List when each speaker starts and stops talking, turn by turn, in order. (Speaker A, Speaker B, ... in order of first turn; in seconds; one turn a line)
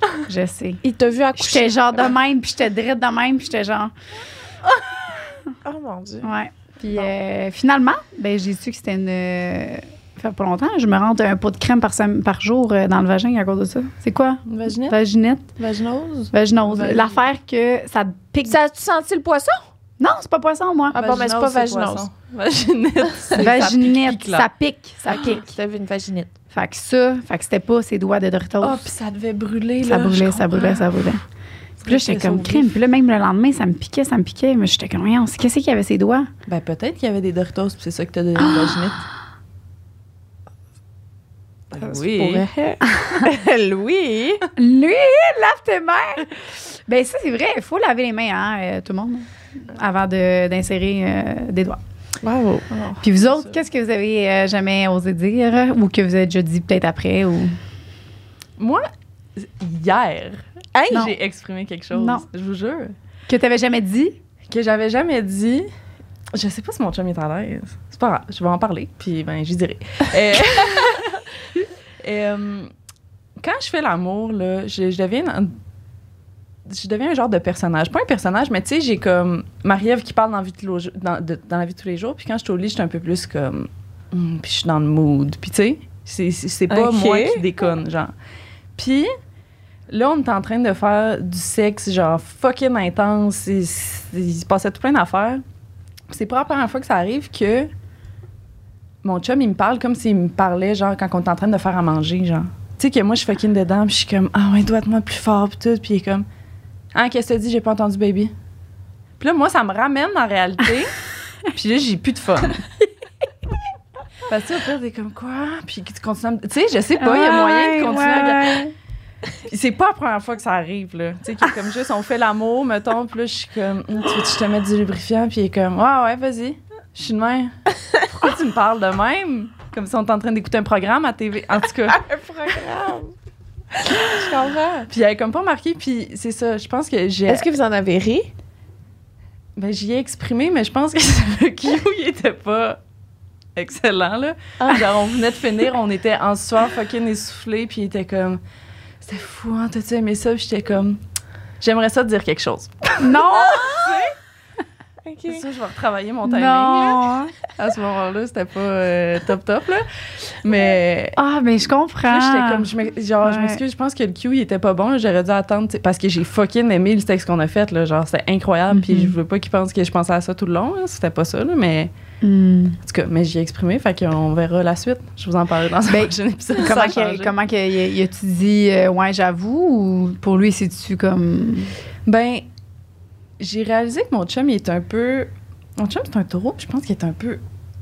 Speaker A: 0.3-0.8
Speaker B: 0.8-2.1
Speaker A: 1.4-3.9
Speaker B: 5.5-6.3
Speaker A: 6.2-15.5
Speaker C: 14.5-15.0
Speaker C: 15.6-17.1
Speaker A: 16.3-18.6
Speaker B: 18.4-19.7
Speaker A: 20.0-21.0
Speaker B: 20.9-22.1
Speaker C: 20.9-24.5
Speaker A: 23.4-25.5
Speaker B: 25.1-26.3
Speaker A: 26.5-28.9
Speaker C: 28.6-30.9
Speaker A: 29.8-31.2
Speaker C: 31.8-32.7
Speaker A: 31.9-36.3
Speaker C: 36.5-39.0
Speaker C: 41.7-42.4
Speaker B: 41.7-44.5
Speaker A: 42.9-43.3
Speaker A: 44.6-51.8
Speaker B: 52.2-52.7
Speaker C: 52.7-53.6
Speaker A: 53.0-57.6
Speaker C: 58.6-62.9
Speaker B: 60.8-61.1
Speaker A: 61.9-62.2
Speaker A: 63.3-64.2
Speaker C: 64.5-65.7
Speaker C: 66.3-71.3
Speaker C: 72.0-72.7
Speaker C: 73.4-75.6
Speaker C: 76.7-88.1
Speaker B: 86.7-87.5
Speaker C: 88.8-89.1
Speaker C: 89.9-95.4
Speaker C: 96.1-97.7
Speaker C: 99.0-106.3
Speaker C: 106.9-108.3
Speaker C: 109.2-111.0
Speaker C: 111.5-112.7
Speaker C: 114.3-118.6
Speaker A: 117.0-118.7
Speaker C: 119.4-127.5
Speaker C: 128.1-132.0
Speaker B: 131.9-133.2
Speaker B: 133.7-134.9
Speaker C: 134.9-137.4
Speaker B: 137.3-138.3
Speaker C: 139.6-142.8
Speaker C: 143.6-148.4
Speaker B: 144.6-144.9
Speaker C: 149.0-151.0
Speaker C: 151.6-154.1
Speaker A: 153.0-153.8
Speaker B: 153.5-154.0
Speaker B: 155.0-155.4
Speaker C: 155.3-161.2
Speaker A: 156.2-157.3
Speaker A: 161.2-162.7
Speaker C: 162.1-171.9
Speaker A: 163.2-163.6
Speaker A: 168.7-169.1
Speaker A: 172.2-172.8
Speaker C: 172.8-177.3
Speaker A: 175.9-181.7
Speaker C: 182.1-182.5
Speaker C: 183.4-187.4